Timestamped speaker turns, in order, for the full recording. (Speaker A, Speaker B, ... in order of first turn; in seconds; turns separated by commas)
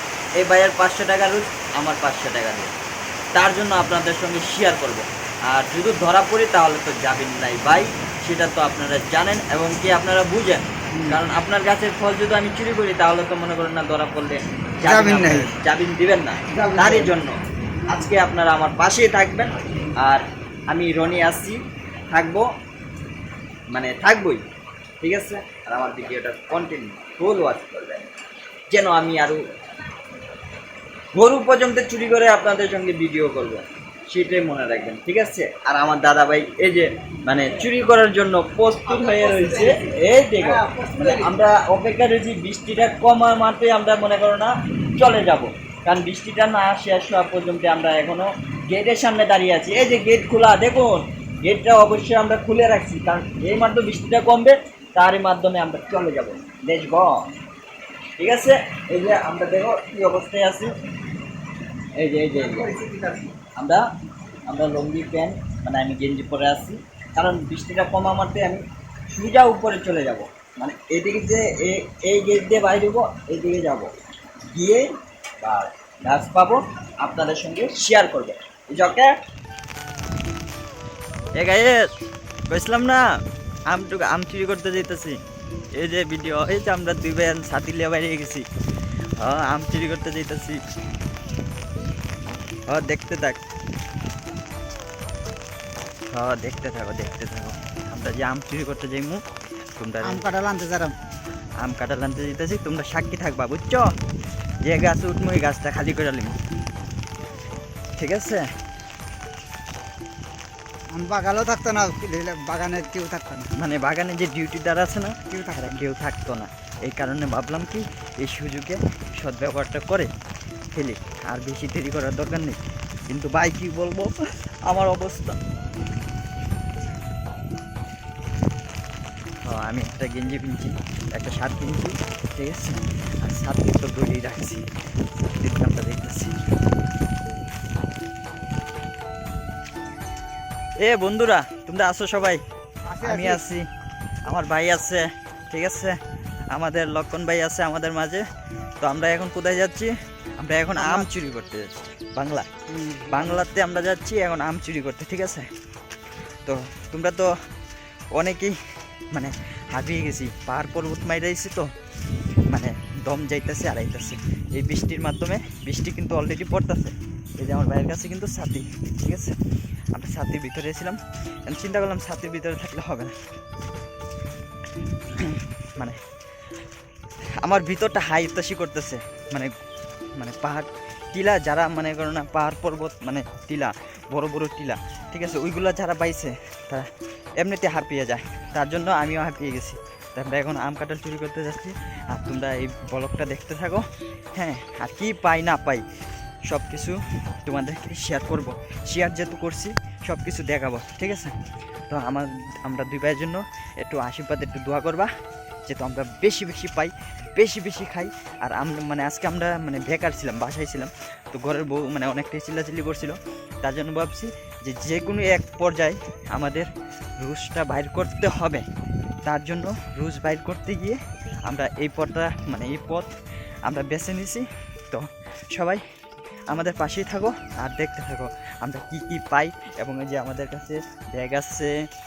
Speaker A: 0.4-2.7, Speaker A: 3.3-22.5, Speaker B: 10.9-11.2, Speaker B: 14.8-15.5, Speaker B: 16.5-17.1, Speaker A: 23.7-24.4, Speaker A: 25.0-28.1, Speaker A: 28.7-29.4, Speaker A: 31.1-57.3, Speaker A: 58.2-60.8, Speaker A: 62.0-63.8, Speaker A: 64.5-73.9, Speaker A: 74.5-79.1, Speaker A: 81.4-81.9, Speaker A: 82.5-83.0, Speaker A: 83.7-85.2, Speaker A: 85.7-88.5, Speaker A: 89.2-90.6, Speaker A: 92.7-93.4, Speaker A: 96.1-99.2, Speaker A: 99.8-100.2, Speaker B: 100.0-101.0, Speaker A: 101.6-103.9, Speaker A: 104.6-106.4, Speaker A: 108.0-108.5, Speaker B: 110.9-113.5, Speaker A: 113.6-120.1, Speaker B: 115.3-115.8, Speaker A: 120.7-124.1, Speaker A: 124.7-125.4, Speaker A: 129.4-134.6, Speaker A: 135.2-136.4, Speaker A: 140.8-142.4, Speaker B: 142.9-143.4, Speaker A: 143.0-143.6, Speaker A: 144.2-146.0, Speaker A: 146.5-148.2, Speaker A: 148.8-152.5, Speaker B: 150.8-151.1, Speaker B: 152.7-153.4, Speaker A: 153.1-155.5, Speaker A: 156.4-157.3, Speaker A: 158.1-158.5, Speaker A: 159.1-161.7, Speaker A: 162.5-169.3, Speaker A: 169.9-173.1, Speaker A: 175.2-176.0, Speaker A: 177.4-179.5, Speaker A: 180.2-186.9, Speaker A: 187.4-193.8, Speaker A: 194.3-195.8, Speaker A: 196.5-201.3, Speaker A: 201.9-205.1, Speaker A: 205.7-218.6, Speaker A: 219.2-223.1, Speaker A: 223.7-225.8, Speaker A: 226.5-231.7